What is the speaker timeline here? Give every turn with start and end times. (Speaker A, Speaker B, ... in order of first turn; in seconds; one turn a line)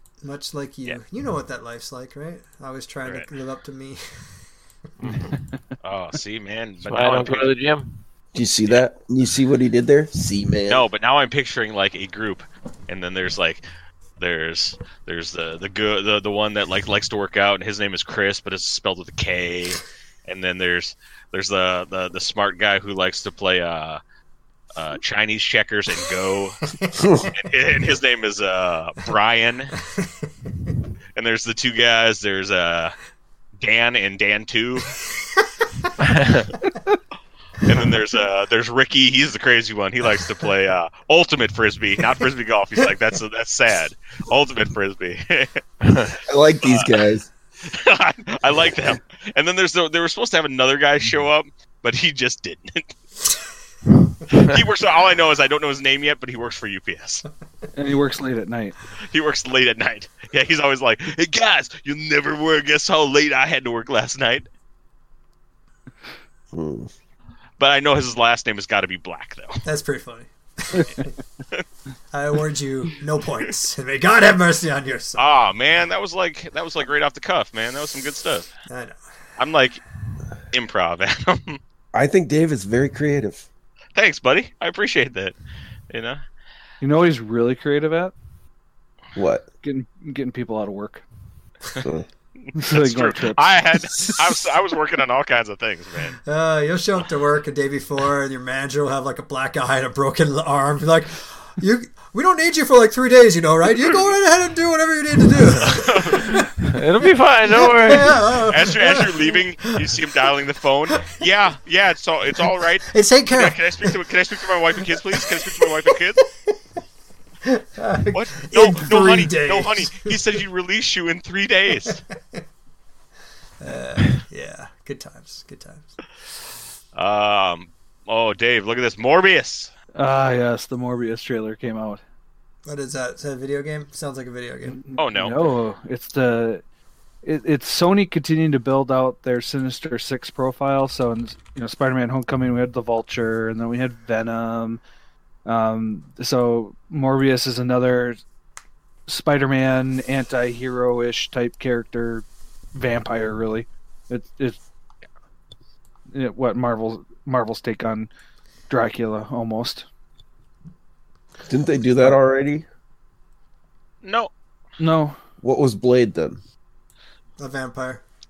Speaker A: 0.2-4.0
Speaker B: 5.0-5.3
Speaker C: 5.8-7.5
Speaker B: 6.8-8.0
Speaker D: 8.3-10.8
Speaker C: 10.7-13.6
Speaker C: 14.2-24.0
Speaker C: 24.7-26.6
Speaker D: 27.0-27.3
Speaker C: 27.3-29.8
Speaker C: 31.1-33.0
Speaker C: 33.6-35.0
Speaker B: 36.0-36.5
Speaker C: 37.6-45.6
Speaker B: 45.8-46.1
Speaker D: 46.2-47.3
Speaker C: 46.6-47.0
Speaker C: 47.6-52.9
Speaker C: 54.3-57.2
Speaker E: 57.7-58.8
Speaker C: 59.1-64.5
Speaker D: 66.5-66.9
Speaker C: 67.6-69.6
Speaker A: 69.6-71.1
Speaker E: 70.7-71.1
Speaker A: 72.1-75.3
Speaker C: 75.2-78.5
Speaker A: 78.7-79.0
Speaker C: 79.4-79.8
Speaker C: 80.5-81.6
Speaker D: 81.9-83.5
Speaker C: 83.9-85.3
Speaker C: 85.9-86.2
Speaker E: 86.8-88.1
Speaker D: 89.1-89.5
Speaker E: 89.6-91.0
Speaker D: 91.8-92.0
Speaker C: 92.4-96.2
Speaker E: 92.5-94.2
Speaker A: 96.2-106.5
Speaker C: 105.6-106.4
Speaker B: 106.6-108.1
Speaker A: 107.5-110.0
Speaker C: 108.5-116.2
Speaker A: 110.9-111.2
Speaker A: 112.3-114.0
Speaker A: 114.7-116.5
Speaker A: 117.4-120.2
Speaker C: 118.1-122.0
Speaker A: 121.8-122.4
Speaker A: 123.6-126.0
Speaker C: 126.9-129.7
Speaker E: 129.9-132.0
Speaker A: 132.7-134.8
Speaker E: 134.7-136.6
Speaker C: 135.0-135.4
Speaker E: 137.2-144.8
Speaker E: 145.4-148.2
Speaker E: 149.1-154.6
Speaker E: 156.1-158.1
Speaker E: 158.7-159.8
Speaker D: 161.5-162.6
Speaker C: 164.0-164.3
Speaker E: 164.8-165.2
Speaker D: 165.4-166.4
Speaker A: 167.4-168.0